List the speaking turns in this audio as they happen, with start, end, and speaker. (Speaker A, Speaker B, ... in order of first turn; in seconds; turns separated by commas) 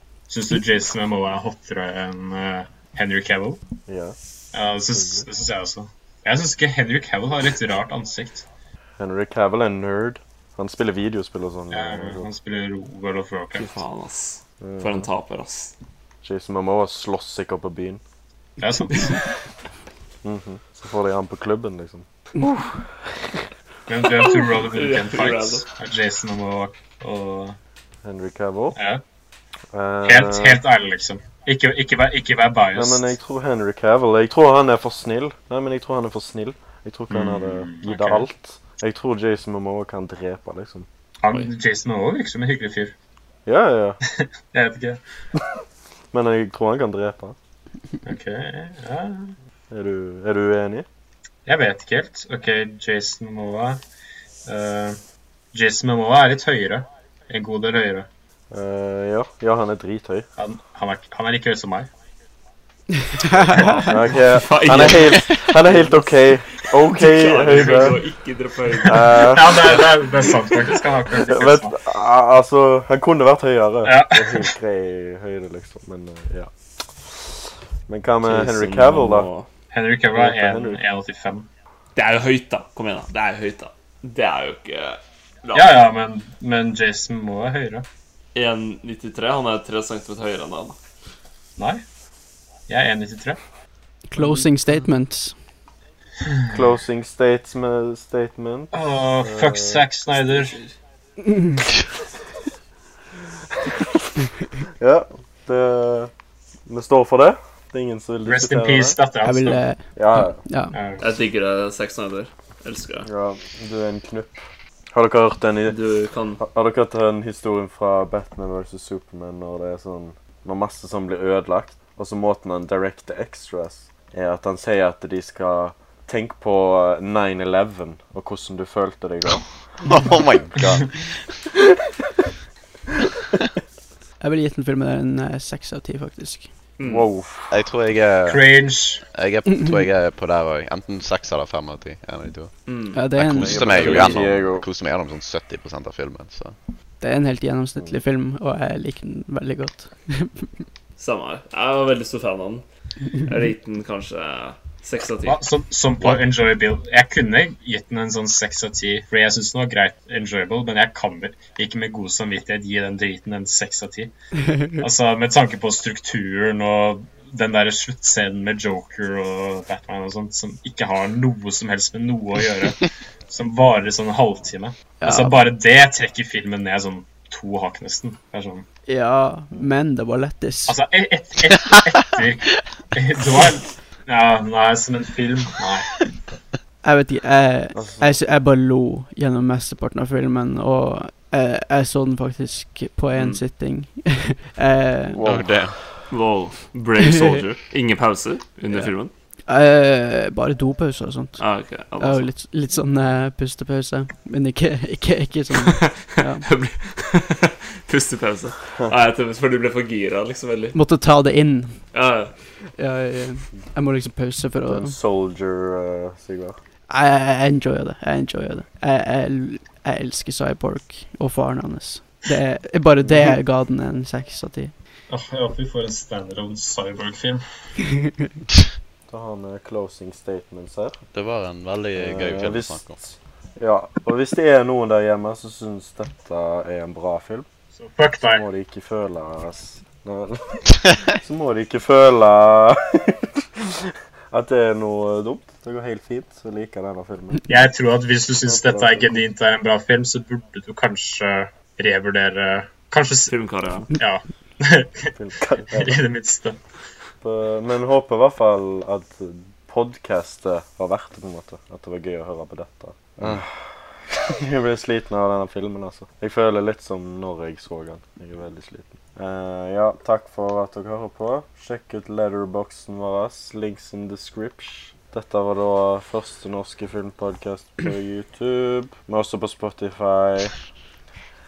Speaker A: 0.3-3.6, Speaker B: 3.9-4.2, Speaker A: 4.5-8.4, Speaker B: 5.0-5.2, Speaker B: 9.0-12.3, Speaker A: 11.7-13.8, Speaker C: 13.6-15.7, Speaker B: 14.6-15.1, Speaker B: 16.2-18.0, Speaker A: 18.6-19.2, Speaker B: 20.2-22.8, Speaker A: 23.9-27.6, Speaker C: 24.2-25.7, Speaker B: 28.0-28.8, Speaker A: 28.8-29.0, Speaker B: 29.7-30.6, Speaker A: 30.1-33.2, Speaker B: 32.7-40.9, Speaker A: 37.1-38.3, Speaker A: 41.2-42.9, Speaker B: 43.5-44.0, Speaker A: 44.1-45.0, Speaker B: 46.1-47.4, Speaker A: 48.0-49.4, Speaker B: 49.7-50.9, Speaker A: 51.5-53.8, Speaker A: 54.5-55.0, Speaker A: 55.5-58.1, Speaker B: 58.5-60.3, Speaker A: 60.4-61.9, Speaker D: 63.0-63.8, Speaker A: 63.2-64.0, Speaker B: 63.9-68.0, Speaker C: 64.1-66.1, Speaker C: 66.7-70.3, Speaker B: 68.8-69.8, Speaker A: 69.2-71.7, Speaker B: 71.2-79.3, Speaker A: 73.8-74.5, Speaker C: 78.2-79.5, Speaker A: 79.7-81.5, Speaker B: 80.1-80.8, Speaker C: 82.0-85.8, Speaker A: 85.5-87.9, Speaker C: 88.3-90.8, Speaker A: 91.6-91.8, Speaker A: 92.7-93.4, Speaker D: 94.1-95.3, Speaker C: 94.2-94.5, Speaker A: 96.2-96.6, Speaker B: 96.5-99.9, Speaker A: 98.7-100.6, Speaker D: 101.2-101.6, Speaker B: 104.8-106.1, Speaker B: 106.7-109.0, Speaker A: 108.3-109.6, Speaker D: 109.2-110.8, Speaker B: 110.0-110.4, Speaker A: 110.7-111.0, Speaker C: 111.0-113.1, Speaker B: 113.0-115.8, Speaker C: 115.7-116.4, Speaker B: 116.4-129.5, Speaker E: 129.8-131.3, Speaker D: 134.2-136.5, Speaker C: 136.8-137.1, Speaker B: 136.8-137.5, Speaker E: 137.5-138.6, Speaker A: 138.3-139.1, Speaker E: 139.1-142.5, Speaker D: 139.5-139.8, Speaker C: 142.7-143.0, Speaker D: 142.9-144.2, Speaker E: 143.1-146.6, Speaker B: 143.4-144.7, Speaker D: 147.0-150.6, Speaker C: 151.0-152.7, Speaker C: 153.2-155.4, Speaker A: 155.3-164.1, Speaker A: 164.8-178.7, Speaker D: 175.0-175.4, Speaker D: 178.9-180.8, Speaker A: 180.7-186.1, Speaker D: 186.8-195.4, Speaker B: 187.8-188.2, Speaker C: 193.1-193.4, Speaker E: 195.2-196.0, Speaker C: 196.1-199.1, Speaker D: 199.5-206.4, Speaker C: 201.4-202.3, Speaker C: 205.7-210.8, Speaker D: 210.7-211.8, Speaker C: 211.9-212.3, Speaker D: 212.8-215.0, Speaker B: 214.7-216.6, Speaker D: 216.9-224.7, Speaker B: 223.0-223.4, Speaker A: 225.1-227.4, Speaker B: 229.1-231.0, Speaker E: 231.1-233.0, Speaker B: 231.9-237.5, Speaker A: 237.7-238.4, Speaker B: 238.2-247.4, Speaker A: 247.5-253.3, Speaker B: 248.5-249.2, Speaker C: 253.3-253.9, Speaker A: 253.9-255.1, Speaker B: 255.2-256.0, Speaker A: 255.8-256.6, Speaker B: 257.2-280.6